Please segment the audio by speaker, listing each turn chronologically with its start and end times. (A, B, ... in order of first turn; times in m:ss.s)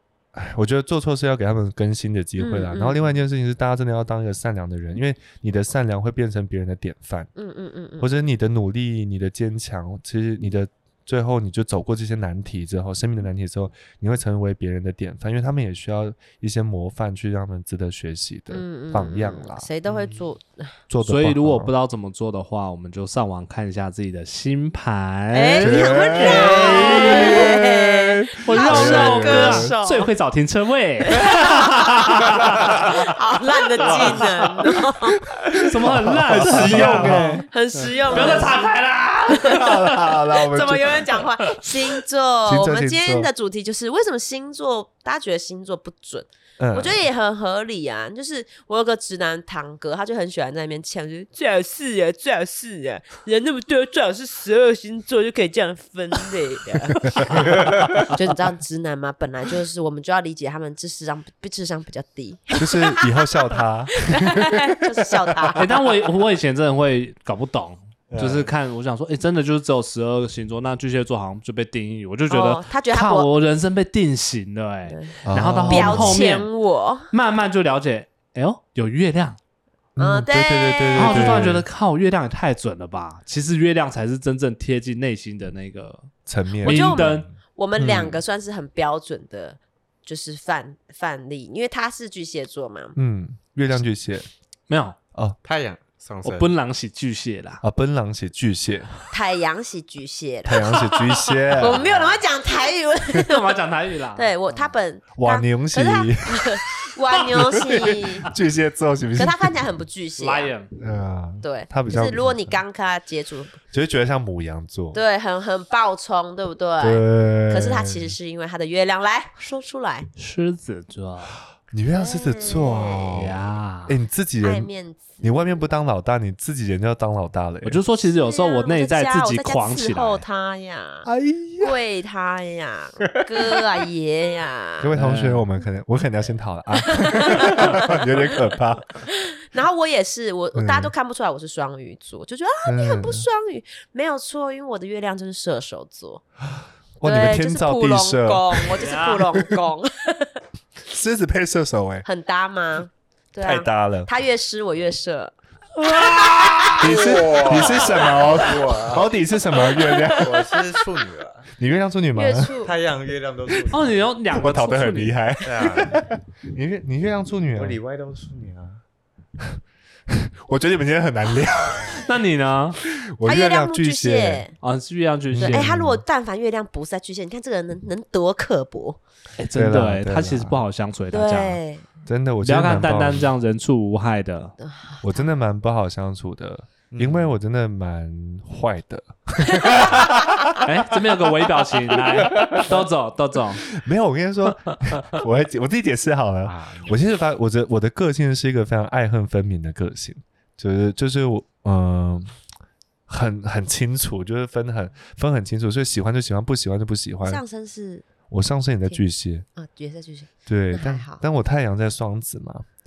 0:00.3-0:07.3 A
0:02.4-0:03.0 B
0:07.4-0:08.1 B
0:08.0-0:19.7 A
0:18.5-0:20.8 B
0:20.9-0:21.7 A
0:21.0-0:27.6 C
0:25.3-0:30.1 B
0:25.6-0:29.7 A
0:28.4-0:32.5 C
0:31.0-0:35.2 B
0:32.4-0:32.9 D
0:33.8-0:34.3 D
0:35.4-0:37.5 A
0:35.5-0:40.1 C
0:36.3-0:37.4 D
0:37.4-0:38.6 B
0:38.1-0:38.5 A
0:39.3-1:05.6 B
0:39.4-0:41.2 A
0:42.4-0:43.3 A
0:46.6-0:47.0 A
0:57.3-0:57.9 A
1:02.6-1:05.8 A
1:05.6-1:16.5 C
1:08.1-1:08.5 A
1:12.3-1:13.3 B
1:14.9-1:17.1 B
1:15.2-1:16.2 A
1:17.1-1:19.4 C
1:20.0-1:21.6 A
1:20.0-1:21.6 B
1:20.9-1:26.1 C
1:26.2-1:27.1 A
1:26.6-1:27.3 C
1:26.6-1:33.0 B
1:27.0-1:27.4 D
1:27.8-1:28.2 A
1:33.0-1:34.3 A
1:34.7-1:35.0 C
1:35.4-1:36.5 D
1:36.2-1:37.6 C
1:37.6-1:38.9 A
1:39.1-1:40.6 B
1:40.4-1:41.9 A
1:40.6-1:41.5 C
1:41.6-1:43.5 B
1:41.8-1:42.2 D
1:43.1-1:44.3 C
1:44.1-1:48.3 B
1:45.1-1:46.6 A
1:47.2-1:49.5 A
1:49.2-1:50.5 B
1:50.2-1:50.7 C
1:50.8-1:52.6 A
1:51.4-1:53.5 B
1:53.7-1:55.0 A
1:54.9-2:00.1 B
1:56.8-1:58.2 A
2:00.2-2:01.3 C
2:01.7-2:04.7 A
2:01.9-2:03.2 B
2:03.1-2:04.0 C
2:04.4-2:05.5 B
2:05.2-2:07.8 A
2:07.6-2:10.2 C
2:08.0-2:11.1 B
2:11.0-2:11.8 A
2:11.6-2:14.9 B
2:14.8-2:19.0 A
2:14.9-2:15.5 C
2:16.9-2:18.1 B
2:19.1-2:26.2 B
2:20.5-2:20.9 A
2:22.6-2:23.2 A
2:27.0-2:28.9 A
2:27.0-2:30.3 B
2:28.8-2:29.3 C
2:30.9-2:32.0 A
2:32.0-2:35.3 B
2:33.4-2:34.1 A
2:35.8-2:37.1 C
2:36.3-2:36.7 B
2:36.8-2:40.6 A
2:36.8-2:39.1 D
2:39.7-2:41.5 D
2:41.5-2:42.6 A
2:42.1-2:42.7 B
2:42.6-2:44.0 D
2:43.7-2:45.2 C
2:44.3-2:47.8 A
2:45.4-2:46.0 D
2:47.5-2:48.8 D
2:50.1-2:52.1 A
2:52.0-2:52.8 C
2:52.8-2:54.4 A
2:53.2-2:54.5 B
2:54.6-2:55.7 C
2:55.3-2:56.0 A
2:55.4-2:59.0 B
2:59.4-3:01.6 C
2:59.5-3:00.6 A
3:01.1-3:01.9 B
3:02.0-3:03.3 A
3:02.4-3:04.6 C
3:04.6-3:05.2 B
3:05.0-3:10.6 A
3:06.9-3:07.4 D
3:10.6-3:13.7 C
3:12.3-3:12.7 A
3:12.3-3:12.6 D
3:13.7-3:22.3 A
3:16.4-3:17.0 D
3:23.1-3:27.4 A
3:27.2-3:28.0 B
3:28.3-3:29.4 A
3:29.6-3:31.2 B
3:30.5-3:32.6 A